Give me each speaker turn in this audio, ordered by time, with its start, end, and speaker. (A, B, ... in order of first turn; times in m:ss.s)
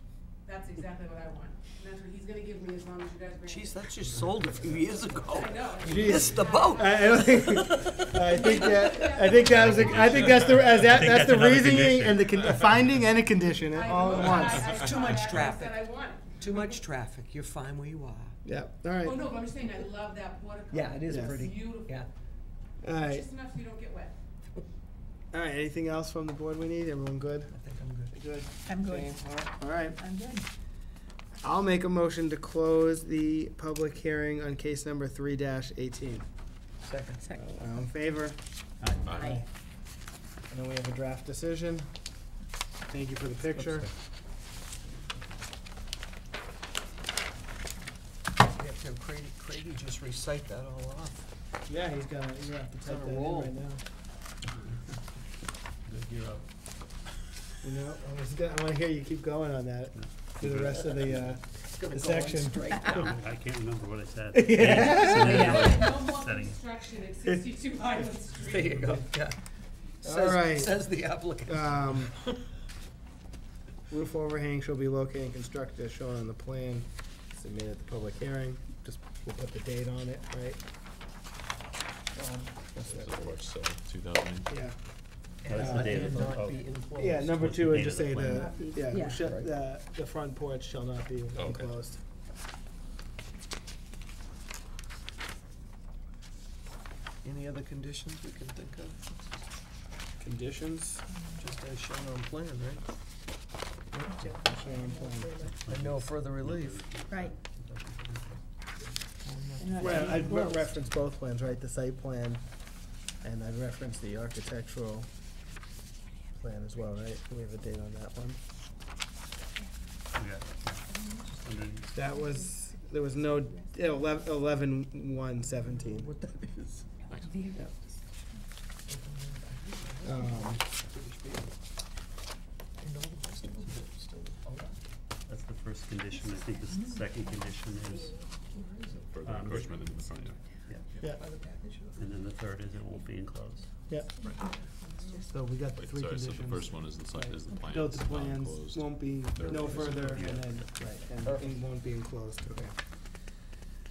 0:00.4-0:04.3 A
0:03.5-0:08.8 B
0:04.8-0:07.2 A
0:05.8-0:14.8 C
0:08.4-0:09.6 A
0:09.6-0:12.7 D
0:13.7-0:16.8 A
0:14.2-0:18.4 B
0:18.4-0:19.2 C
0:19.0-0:22.0 A
0:20.7-0:22.1 B
0:21.1-0:21.3 C
0:22.8-0:23.3 C
0:23.0-0:24.2 A
0:25.3-0:27.5 C
0:27.5-0:28.1 B
0:28.1-0:30.0 C
0:28.7-0:29.2 E
0:29.9-0:30.4 E
0:31.4-0:36.2 C
0:36.8-0:37.2 B
0:37.2-0:37.5 E
0:37.4-0:38.4 C
0:38.8-0:39.2 D
0:39.0-0:39.4 F
0:39.1-0:39.4 C
0:39.2-0:39.4 E
0:40.5-0:41.8 C
0:42.9-0:43.9 C
0:43.5-0:43.9 D
0:48.5-0:51.2 B
0:51.7-0:53.8 C
0:52.8-0:53.6 B
0:55.9-0:56.4 D
0:57.6-1:02.7 C
1:00.4-1:03.2 B
1:02.8-1:06.6 D
1:04.3-1:05.9 C
1:05.8-1:08.8 A
1:07.3-1:08.1 C
1:08.4-1:09.4 B
1:10.0-1:12.3 B
1:10.0-1:10.8 C
1:11.4-1:12.1 C
1:13.9-1:20.6 C
1:22.2-1:23.4 C
1:22.8-1:24.5 F
1:24.5-1:24.7 C
1:25.4-1:27.4 B
1:25.4-1:28.5 D
1:25.6-1:26.3 C
1:26.9-1:32.0 C
1:28.8-1:29.2 E
1:28.9-1:29.5 B
1:31.3-1:31.8 F
1:37.2-1:39.2 B
1:40.2-1:41.0 C
1:41.4-1:42.8 B
1:43.9-1:45.3 C
1:44.1-1:45.5 E
1:45.4-1:48.4 D
1:45.7-1:46.8 B
1:47.1-1:47.3 E
1:49.2-1:50.5 B
1:49.6-1:50.6 E
1:49.8-1:52.4 C
1:53.2-1:55.1 C
1:56.4-1:58.4 C
2:00.1-2:01.9 D
2:01.9-2:06.1 C
2:05.9-2:06.9 B
2:07.1-2:08.4 E
2:08.9-2:11.5 B
2:10.0-2:10.6 C
2:12.8-2:14.8 B
2:15.3-2:18.2 D
2:16.7-2:17.0 E
2:18.5-2:19.1 B
2:19.1-2:20.4 F
2:19.2-2:19.8 D
2:21.0-2:22.1 B
2:22.0-2:23.7 D
2:24.8-2:25.2 E
2:25.3-2:32.7 C
2:25.7-2:30.9 F
2:30.1-2:30.4 D
2:31.2-2:31.6 B